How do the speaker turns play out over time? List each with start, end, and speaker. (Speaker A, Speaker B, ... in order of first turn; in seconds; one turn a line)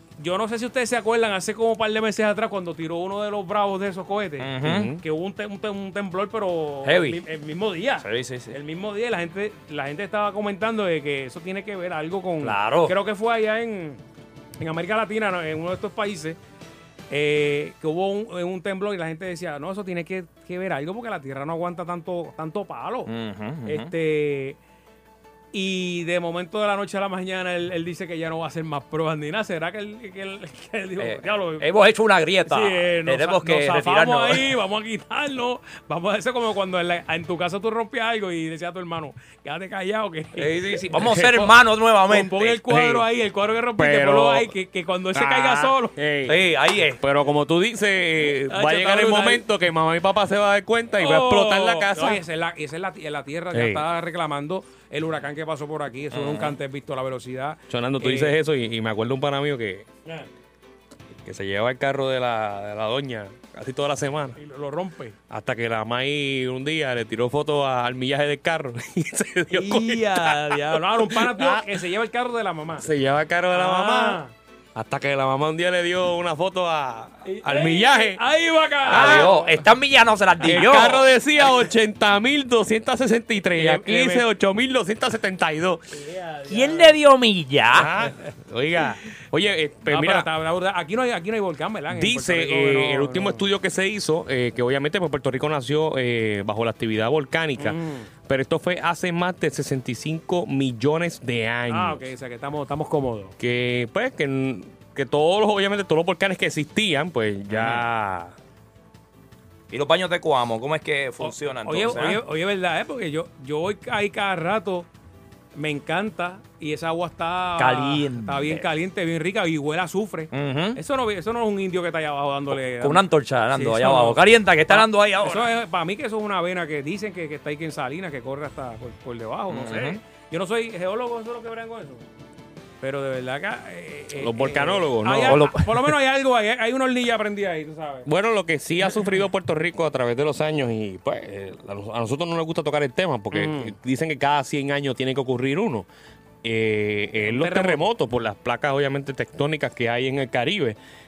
Speaker A: 0.2-14.0
Speaker B: 4.4-4.9
Speaker C: 4.6-5.0
Speaker B: 6.8-7.2
Speaker B: 8.0-8.5
Speaker B: 12.4-12.9
Speaker A: 14.6-16.4
Speaker A: 17.1-23.1
Speaker B: 23.1-23.9
Speaker A: 23.7-24.6
Speaker A: 25.5-31.7
Speaker B: 31.0-34.5
Speaker A: 32.5-40.5
Speaker B: 40.4-42.5
Speaker C: 40.9-41.5
Speaker A: 42.1-46.0
Speaker C: 42.7-43.1
Speaker C: 43.8-44.5
Speaker C: 45.1-46.4
Speaker B: 46.3-47.0
Speaker C: 47.0-52.2
Speaker A: 48.5-49.5
Speaker A: 51.0-58.4
Speaker C: 53.5-53.9
Speaker B: 56.1-56.5
Speaker C: 57.7-59.9
Speaker C: 61.2-64.4
Speaker A: 64.4-65.2
Speaker C: 65.3-71.7
Speaker A: 69.5-72.9
Speaker C: 72.8-74.2
Speaker A: 73.5-74.3
Speaker C: 74.8-78.2
Speaker A: 77.2-79.6
Speaker C: 78.9-79.3
Speaker B: 78.9-81.1
Speaker C: 80.4-85.8
Speaker A: 83.5-84.3
Speaker A: 85.9-87.0
Speaker B: 86.5-87.9
Speaker C: 87.7-90.3
Speaker A: 89.9-93.5
Speaker C: 91.9-102.0
Speaker A: 97.6-98.1
Speaker A: 101.7-103.3
Speaker C: 103.4-108.3
Speaker B: 109.7-112.2
Speaker A: 111.2-114.9
Speaker A: 115.6-123.0
Speaker B: 117.6-118.6
Speaker B: 120.3-120.8
Speaker B: 122.8-125.5
Speaker A: 123.5-132.1
Speaker B: 129.5-130.0
Speaker A: 132.8-138.1
Speaker C: 134.2-135.4
Speaker B: 135.3-135.7
Speaker C: 138.1-145.9
Speaker A: 143.3-143.7
Speaker C: 146.4-150.8
Speaker A: 147.2-147.8